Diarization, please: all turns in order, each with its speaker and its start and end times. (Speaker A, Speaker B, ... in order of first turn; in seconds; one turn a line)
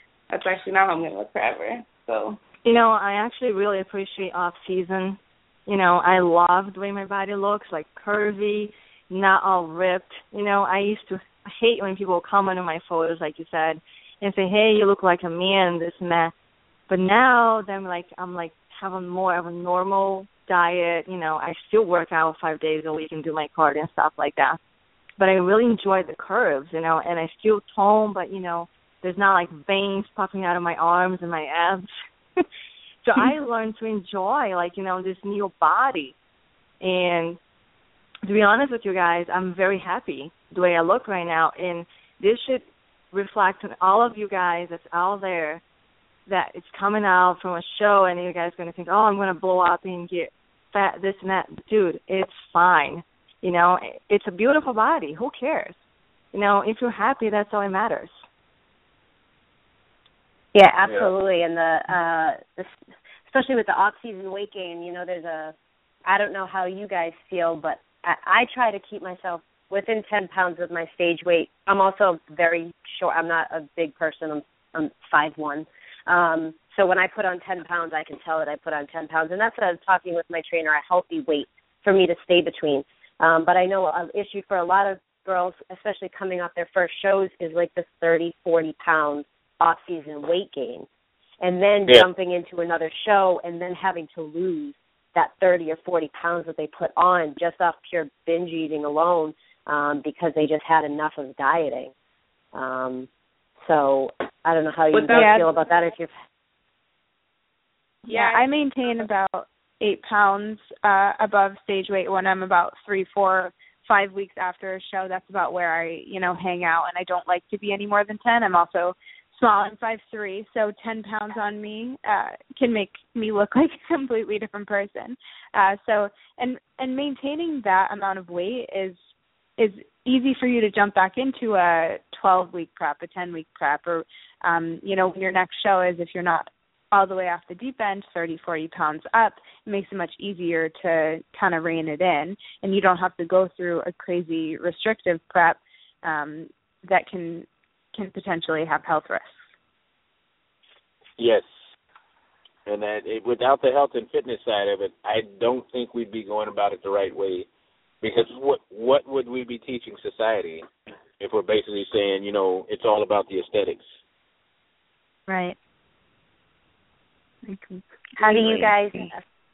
Speaker A: 0.3-2.4
Speaker B: 2.6-16.3
Speaker B: 16.9-24.6
Speaker B: 25.2-32.4
Speaker B: 33.0-36.1
Speaker B: 36.8-37.4
Speaker B: 38.2-45.6
Speaker B: 46.3-55.8
Speaker B: 56.3-58.2
Speaker C: 60.5-62.7
Speaker C: 63.3-65.5
Speaker C: 66.1-90.9
Speaker C: 91.4-101.9
Speaker C: 102.5-103.1
Speaker C: 103.6-106.1
Speaker A: 104.9-105.4
Speaker D: 105.1-105.5
Speaker A: 108.1-108.4
Speaker D: 108.1-129.0
Speaker D: 129.6-149.4
Speaker E: 151.2-151.4
Speaker E: 152.7-157.5
Speaker E: 158.0-160.7
Speaker E: 161.2-163.8
Speaker F: 165.3-165.6
Speaker F: 167.4-169.1
Speaker C: 168.2-169.2